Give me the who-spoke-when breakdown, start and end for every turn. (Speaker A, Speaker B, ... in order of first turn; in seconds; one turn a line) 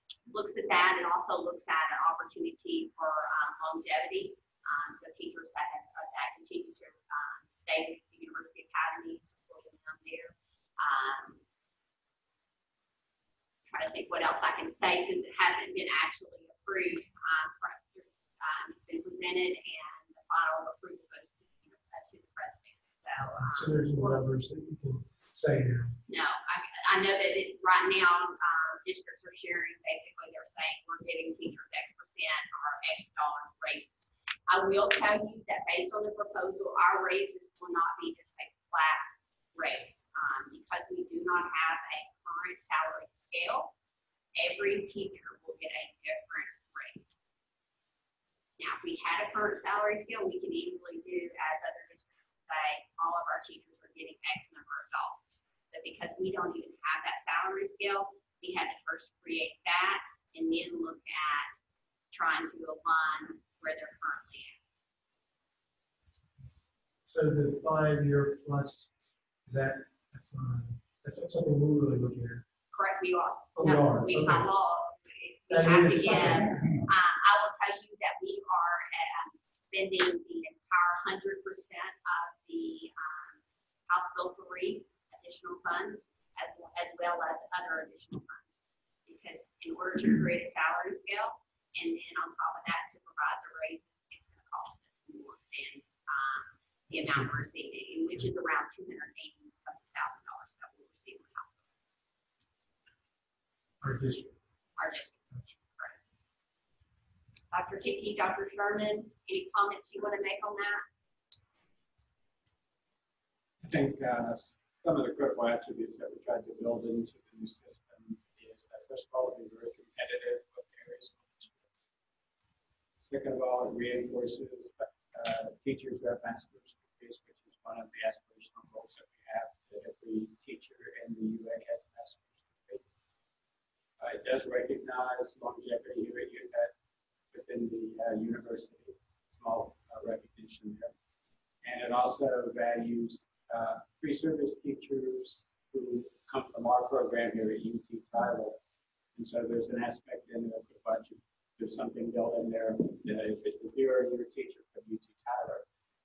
Speaker A: 0.3-11.4
Speaker A: 13.7-24.2
Speaker B: 23.2-26.0
Speaker A: 26.1-43.7
Speaker A: 44.4-47.1
Speaker A: 48.6-61.6
Speaker A: 62.1-64.6
Speaker B: 67.1-68.9
Speaker B: 69.5-72.5
Speaker A: 72.7-88.5
Speaker B: 73.6-74.5
Speaker B: 75.5-76.9
Speaker A: 89.1-101.6
Speaker B: 103.8-104.4
Speaker A: 104.8-106.0
Speaker A: 107.5-110.8
Speaker C: 113.6-121.8
Speaker C: 123.0-132.8
Speaker C: 134.0-136.7
Speaker C: 137.3-140.9
Speaker C: 141.6-148.6
Speaker C: 149.2-155.7